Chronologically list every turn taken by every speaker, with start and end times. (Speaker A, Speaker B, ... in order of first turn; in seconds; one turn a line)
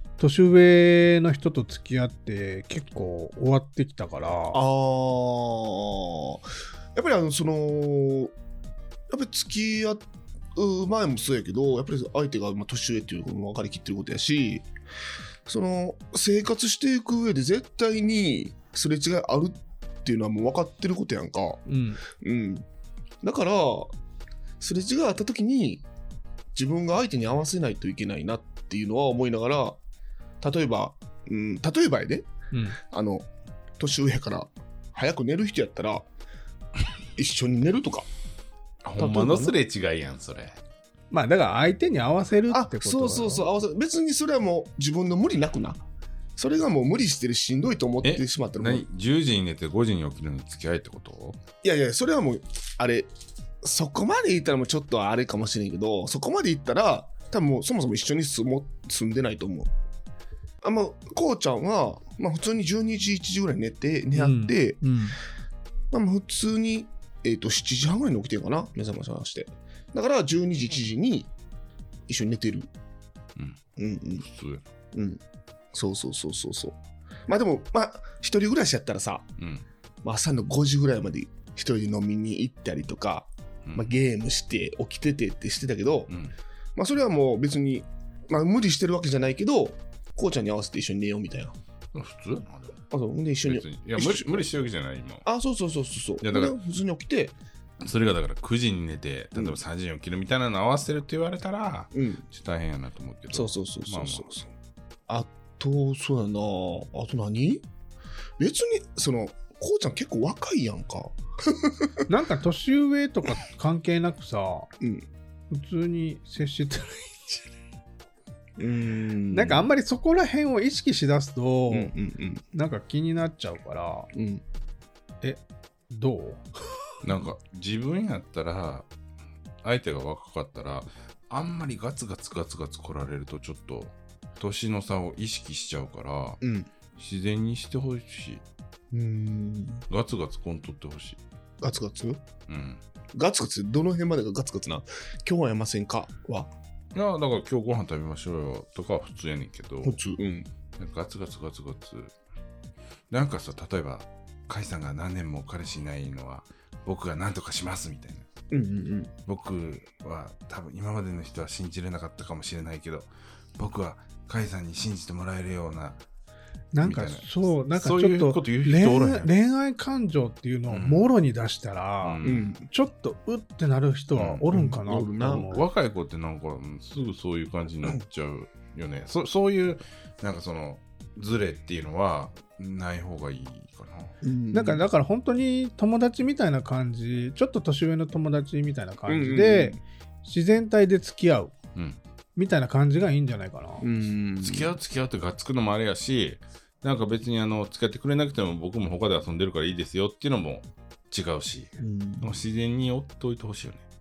Speaker A: 0.2-4.6
Speaker B: 4.5-8.3
Speaker B: 9.1-14.7
Speaker B: 15.4-22.6
Speaker A: 21.7-22.0
Speaker B: 23.2-23.9
Speaker B: 24.6-25.8
Speaker B: 26.5-29.8
Speaker B: 30.4-32.3
Speaker A: 32.5-32.8
Speaker B: 32.8-33.3
Speaker B: 33.8-36.1
Speaker B: 37.1-38.1
Speaker C: 38.8-40.6
Speaker B: 39.0-39.5
Speaker A: 41.1-43.4
Speaker B: 42.5-45.8
Speaker B: 46.4-48.8
Speaker C: 48.0-51.4
Speaker B: 51.6-53.1
Speaker B: 53.6-59.7
Speaker B: 60.6-64.8
Speaker A: 64.1-65.2
Speaker B: 65.9-71.3
Speaker B: 72.1-72.7
Speaker B: 73.8-74.2
Speaker C: 74.2-74.6
Speaker B: 74.9-75.2
Speaker B: 75.7-79.3
Speaker C: 79.4-79.6
Speaker B: 80.0-86.1
Speaker C: 83.6-83.9
Speaker B: 86.8-91.5
Speaker C: 91.9-92.8
Speaker B: 92.9-94.5
Speaker C: 93.4-95.2
Speaker B: 95.2-97.3
Speaker C: 96.2-96.5
Speaker C: 97.8-104.3
Speaker B: 101.9-102.2
Speaker B: 103.3-104.5
Speaker B: 105.1-107.7
Speaker B: 108.4-112.0
Speaker A: 112.1-114.7
Speaker B: 114.8-115.1
Speaker A: 115.5-117.4
Speaker B: 118.6-119.7
Speaker A: 119.3-121.9
Speaker B: 121.7-122.4
Speaker A: 122.5-124.1
Speaker B: 124.1-124.4
Speaker A: 125.2-126.4
Speaker C: 127.0-128.9
Speaker C: 129.6-136.4
Speaker B: 136.4-136.7
Speaker C: 136.9-138.4
Speaker B: 138.9-139.8
Speaker C: 139.9-141.2
Speaker B: 141.6-142.2
Speaker C: 142.5-142.8
Speaker B: 143.1-146.5
Speaker C: 146.9-150.0
Speaker B: 149.8-150.5
Speaker C: 150.8-152.1
Speaker C: 153.1-158.3
Speaker B: 158.5-159.1
Speaker C: 159.3-166.0
Speaker A: 166.7-175.6
Speaker C: 166.8-169.3
Speaker C: 170.7-171.1
Speaker C: 172.0-172.5
Speaker B: 172.2-172.6
Speaker C: 174.2-174.4
Speaker B: 174.5-175.5
Speaker C: 175.3-184.1
Speaker B: 184.2-184.8
Speaker A: 184.5-191.5
Speaker B: 189.1-189.8
Speaker A: 192.3-193.9
Speaker B: 193.8-194.7
Speaker C: 194.4-203.8
Speaker B: 201.8-202.3